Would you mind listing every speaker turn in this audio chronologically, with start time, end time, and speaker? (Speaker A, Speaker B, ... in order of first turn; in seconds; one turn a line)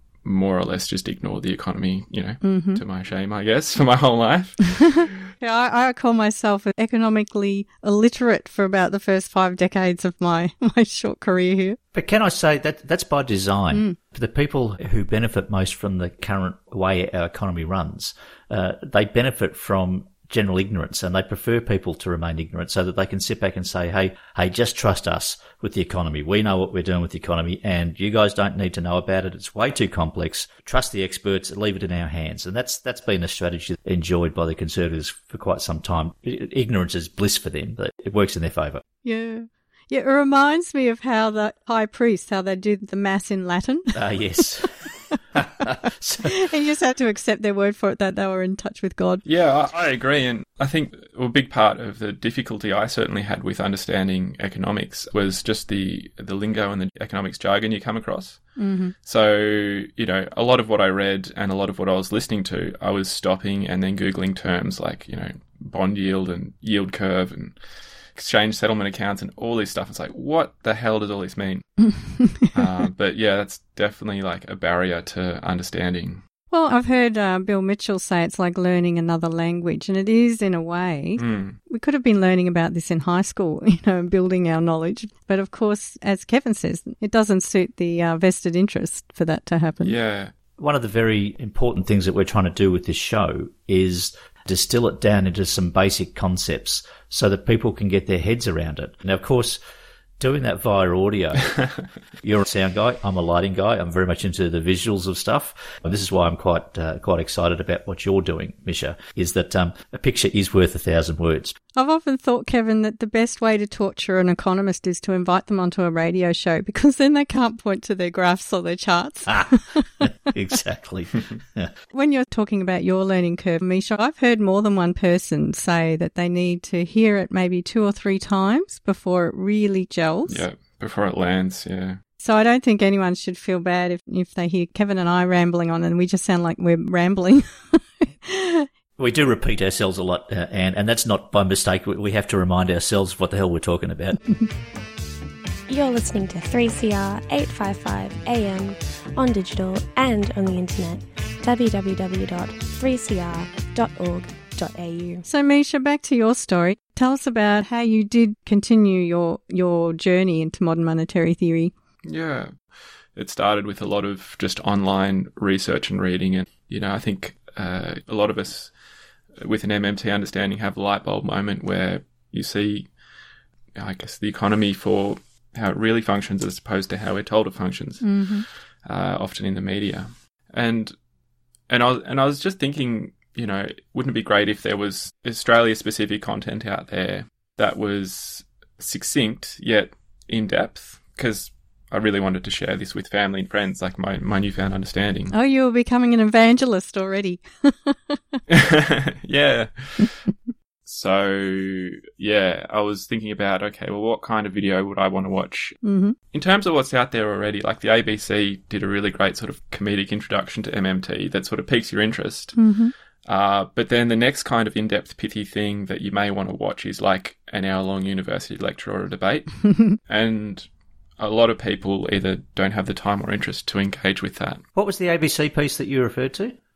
Speaker A: 0.2-5.1
Speaker B: 2.4-2.8
Speaker B: 5.4-11.8
Speaker C: 11.9-38.8
Speaker B: 39.0-43.9
Speaker C: 43.9-46.5
Speaker B: 46.2-49.2
Speaker A: 49.2-67.6
Speaker B: 58.6-58.9
Speaker A: 68.1-71.9
Speaker B: 71.8-72.5
Speaker A: 72.5-76.2
Speaker B: 76.5-90.0
Speaker A: 81.2-81.6
Speaker A: 89.8-90.3
Speaker C: 90.6-99.6
Speaker C: 100.2-101.6
Speaker C: 102.2-111.5
Speaker B: 111.8-120.0
Speaker C: 119.3-121.7
Speaker B: 121.9-130.4
Speaker A: 130.3-132.0
Speaker B: 132.2-138.7
Speaker C: 139.0-144.2
Speaker D: 145.7-155.2
Speaker B: 155.2-161.7
Speaker A: 162.0-162.6
Speaker A: 163.1-168.7
Speaker A: 169.4-172.9
Speaker A: 173.8-180.9
Speaker B: 178.0-178.4
Speaker A: 181.7-195.3
Speaker B: 195.3-198.2
Speaker A: 198.5-200.3
Speaker A: 200.8-205.8
Speaker B: 205.8-206.2
Speaker A: 206.3-212.6
Speaker B: 212.6-212.9
Speaker A: 213.2-220.7
Speaker A: 221.2-224.6
Speaker C: 224.7-226.6